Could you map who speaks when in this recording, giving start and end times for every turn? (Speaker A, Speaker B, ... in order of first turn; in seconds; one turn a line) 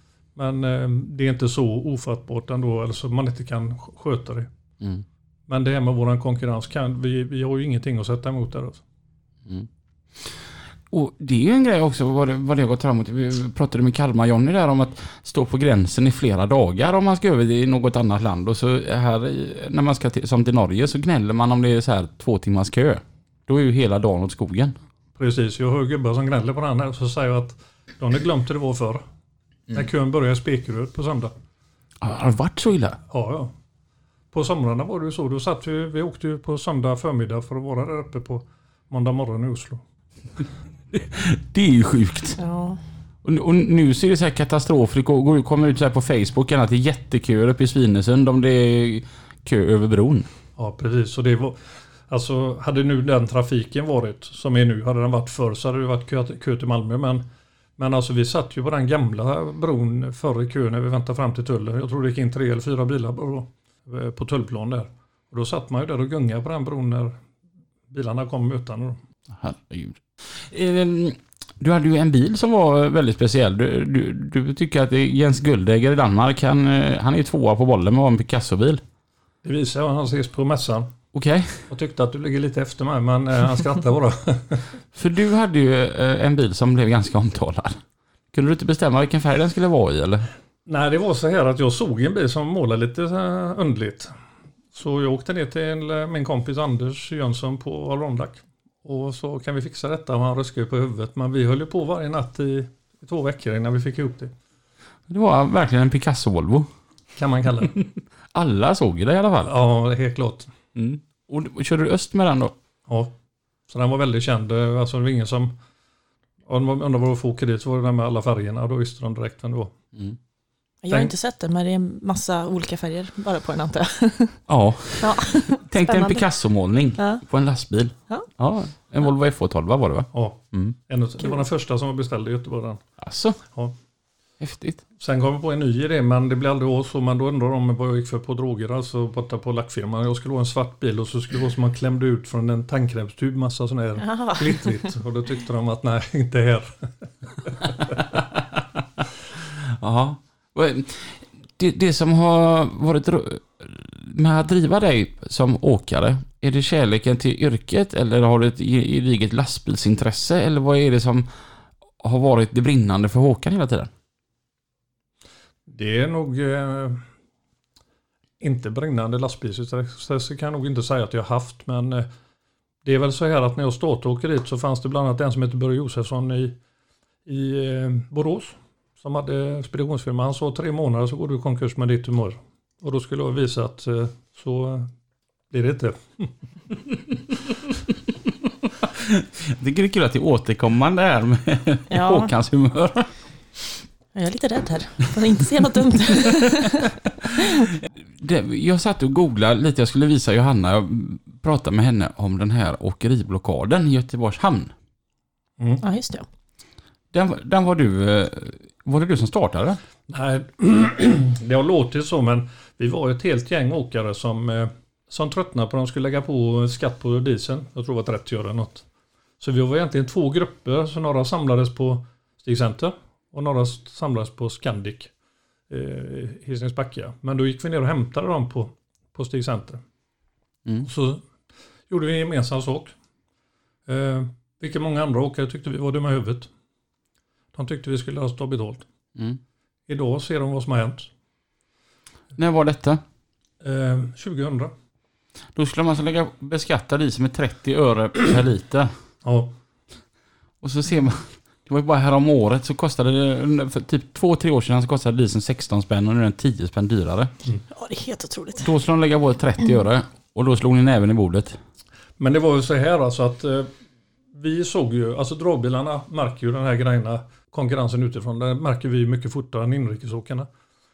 Speaker A: 0.3-4.5
Speaker A: 5.5-8.8
Speaker B: 10.9-24.8
Speaker A: 25.1-29.0
Speaker A: 29.7-31.3
Speaker B: 32.0-33.0
Speaker A: 33.1-33.5
Speaker A: 34.3-39.8
Speaker B: 40.9-42.4
Speaker C: 42.4-42.8
Speaker B: 43.2-50.3
Speaker A: 50.5-57.2
Speaker A: 57.8-67.2
Speaker A: 67.9-69.0
Speaker B: 69.3-78.8
Speaker A: 79.4-80.9
Speaker B: 81.1-81.6
Speaker A: 81.7-84.7
Speaker B: 84.9-87.8
Speaker B: 88.3-90.3
Speaker A: 90.7-94.1
Speaker A: 94.7-104.3
Speaker B: 105.1-106.7
Speaker A: 107.2-107.8
Speaker B: 107.7-109.5
Speaker A: 109.4-110.5
Speaker B: 110.7-112.5
Speaker A: 113.7-115.5
Speaker A: 116.5-119.7
Speaker C: 120.8-124.4
Speaker B: 124.5-130.7
Speaker C: 125.0-126.2
Speaker C: 127.0-127.2
Speaker A: 130.1-132.8
Speaker B: 133.0-133.4
Speaker B: 134.4-134.8
Speaker A: 135.0-146.9
Speaker C: 144.0-144.8
Speaker B: 148.1-148.4
Speaker B: 149.4-161.3
Speaker B: 162.0-163.9
Speaker A: 165.7-167.0
Speaker A: 168.4-172.1
Speaker A: 172.8-176.6
Speaker A: 177.2-184.9
Speaker A: 185.5-186.3
Speaker B: 188.9-193.1
Speaker C: 191.9-192.3
Speaker C: 194.1-197.7
Speaker B: 197.9-204.7
Speaker C: 205.8-206.2
Speaker B: 207.1-209.8
Speaker A: 210.1-218.8
Speaker A: 219.4-225.1
Speaker A: 225.7-229.8
Speaker A: 230.8-231.2
Speaker A: 231.9-232.9
Speaker A: 233.9-236.5
Speaker A: 237.5-238.8
Speaker A: 239.9-241.1
Speaker B: 242.3-243.0
Speaker A: 243.6-244.7
Speaker B: 245.5-248.9
Speaker A: 249.2-249.5
Speaker B: 250.6-257.3
Speaker C: 257.7-258.7
Speaker B: 258.6-261.6
Speaker A: 262.2-263.7
Speaker A: 264.3-270.5